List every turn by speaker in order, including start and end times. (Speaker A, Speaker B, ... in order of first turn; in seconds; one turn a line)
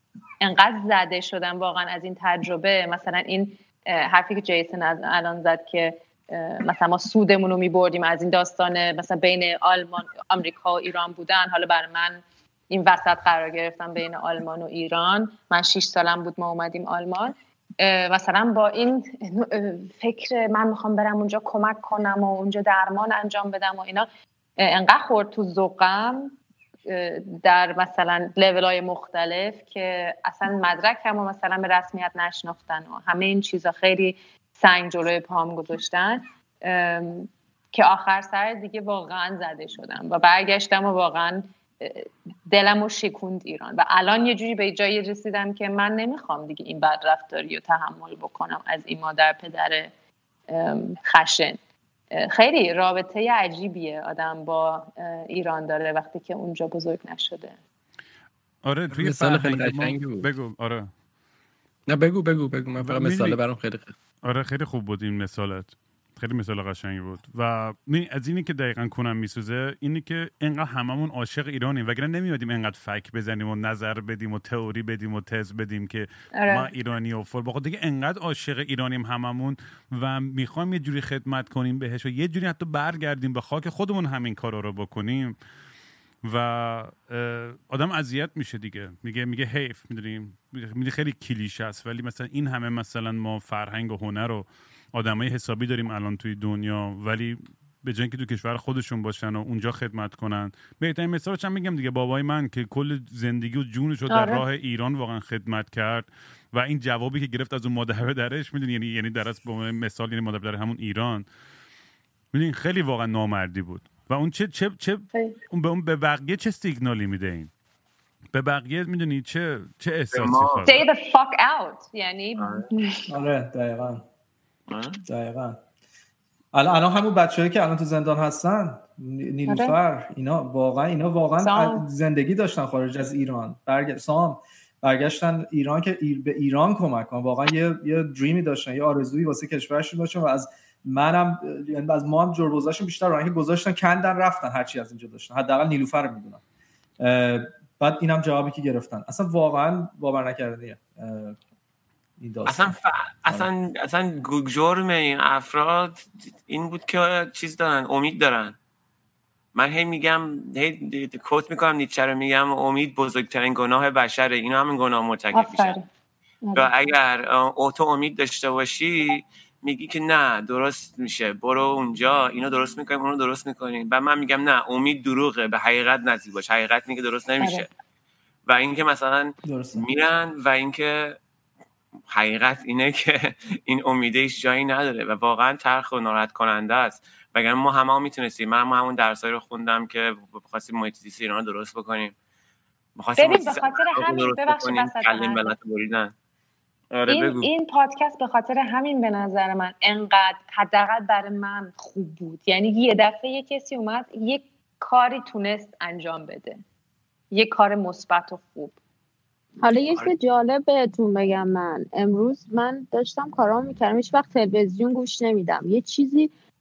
Speaker A: 0.4-26.4
Speaker A: 26.9-49.9
Speaker A: 50.5-51.6
Speaker A: 52.1-57.6
Speaker B: 58.6-60.9
Speaker C: 58.9-60.3
Speaker C: 61.9-63.9
Speaker B: 62.8-63.4
Speaker B: 64.2-85.4
Speaker A: 76.4-76.7
Speaker B: 86.2-111.3
Speaker A: 104.1-104.4
Speaker B: 112.3-117.5
Speaker B: 118.3-120.8
Speaker D: 120.1-120.8
Speaker A: 120.7-123.0
Speaker D: 122.4-122.7
Speaker E: 123.1-124.0
Speaker D: 124.7-125.0
Speaker E: 125.1-125.6
Speaker E: 126.5-146.4
Speaker A: 129.5-129.8
Speaker A: 131.4-131.8
Speaker E: 147.0-151.4
Speaker E: 152.2-153.5
Speaker D: 152.5-158.6
Speaker D: 159.6-165.8
Speaker A: 165.3-165.9
Speaker A: 166.4-166.7
Speaker D: 166.6-177.7
Speaker D: 178.5-181.2
Speaker E: 179.5-179.8
Speaker D: 182.1-192.2
Speaker D: 193.0-196.1
Speaker A: 193.2-195.5
Speaker D: 196.9-197.5
Speaker A: 197.1-206.6
Speaker A: 207.3-208.8
Speaker F: 209.6-216.3